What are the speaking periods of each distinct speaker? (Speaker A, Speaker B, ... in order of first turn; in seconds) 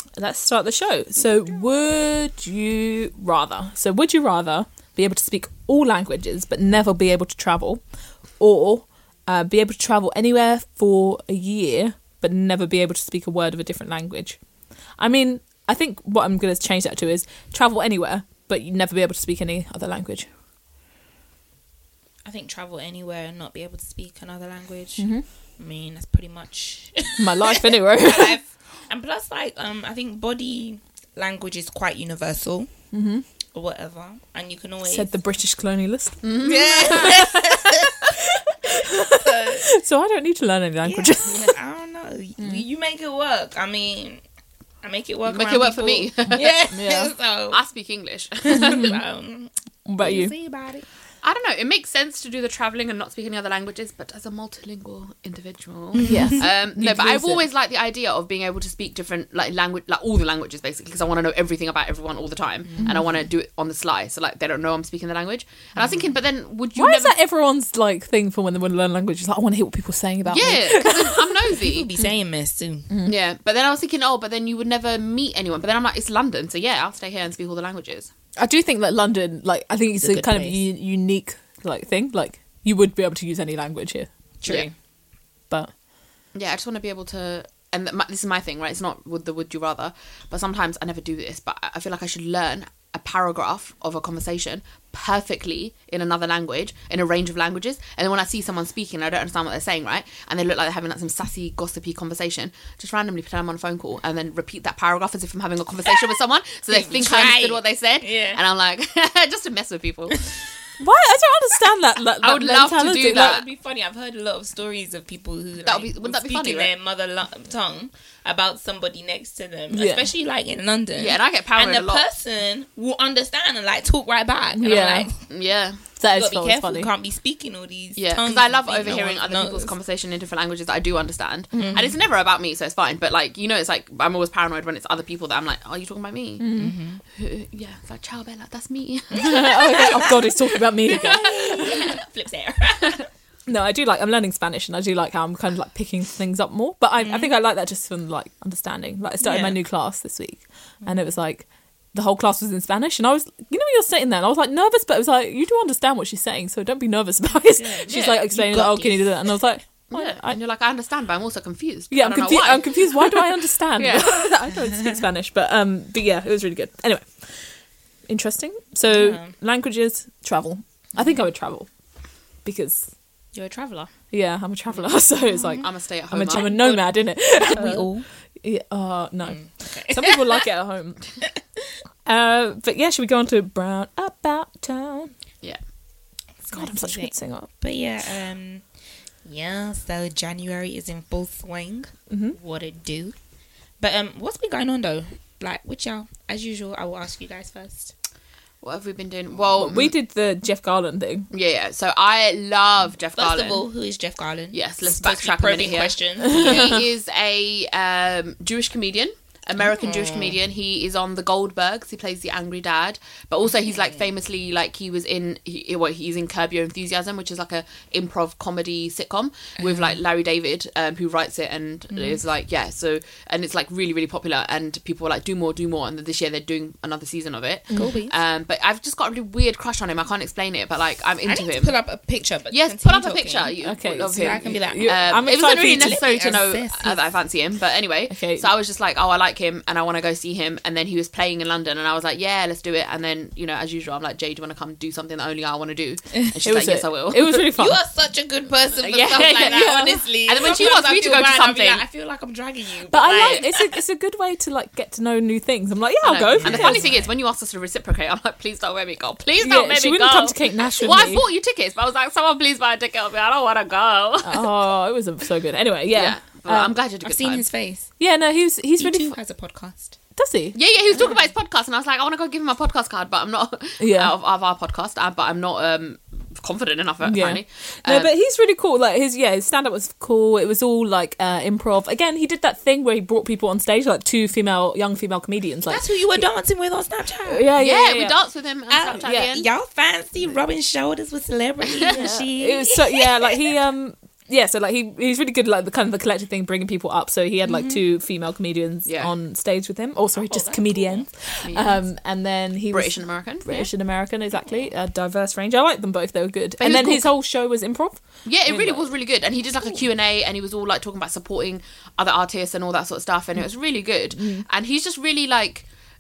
Speaker A: 0.2-7.8, 8.4-14.4, 15.0-20.3, 25.0-25.2, 27.2-28.4, 32.9-33.2, 34.8-41.5, 42.4-42.6, 46.3-47.1, 48.5-48.8, 49.9-50.3, 56.0-57.4, 66.7-71.3, 78.4-84.1, 110.8-113.4, 119.7-120.0, 124.6-125.1, 126.0-126.9, 131.5-131.9, 136.4-136.7, 139.2-142.0, 143.5-160.3, 161.9-167.6, 168.1-171.7, 172.4-172.9, 174.1-181.1, 182.1-185.1, 186.5-187.5, 192.1-192.4, 199.5-201.3, 206.2-206.5, 227.7-228.0, 233.6-236.0, 238.1-238.5, 246.4-247.8, 249.4-250.0, 252.9-256.9, 259.4-261.2, 264.2-266.7, 268.0-269.1, 270.1-270.6, 273.8-274.1, 277.0-286.2, 287.2-288.2, 289.0-289.3, 291.9-308.9, 314.1-314.4
Speaker B: 22.2-32.7, 33.5-35.1, 36.4-38.0, 39.1-39.6, 41.2-44.2, 44.8-47.6, 48.4-50.8, 55.9-56.4, 62.7-63.0, 65.8-66.0, 71.6-72.9, 80.0-80.6, 84.4-84.7, 106.7-108.4, 113.1-125.3, 126.1-129.7, 131.6-131.9, 136.6-137.0, 139.3-140.1, 140.9-143.1, 147.0-147.3, 149.2-149.6, 157.5-159.3, 168.9-169.3, 173.3-173.9, 177.3-178.1, 179.2-180.4, 186.4-188.6, 189.2-193.2, 193.8-197.9, 203.2-206.8, 209.6-210.3, 219.6-219.9, 227.7-228.1, 231.2-233.5, 234.1-237.0, 246.1-246.4, 247.5-253.8, 256.3-257.1, 267.0-267.9, 268.8-270.0, 285.7-287.4, 288.7-293.4, 297.5-297.8, 300.1-301.1
Speaker C: 36.2-37.2, 41.0-41.5, 45.2-46.6, 47.5-49.0, 51.2-67.1, 70.3-71.9, 73.0-78.1, 86.3-110.2, 112.2-113.5, 115.6-116.7, 121.0-122.0, 125.3-125.8, 128.0-136.5, 137.1-140.1, 140.9-141.9, 159.9-164.3, 175.6-176.8, 198.6-199.9, 201.3-203.6, 204.5-231.8, 232.5-247.4, 248.8-251.8, 256.0-264.5, 265.9-267.4, 270.5-278.1, 287.6-289.5, 298.9-299.1, 301.4-301.8, 302.7-303.7, 306.6-307.1, 308.2-315.7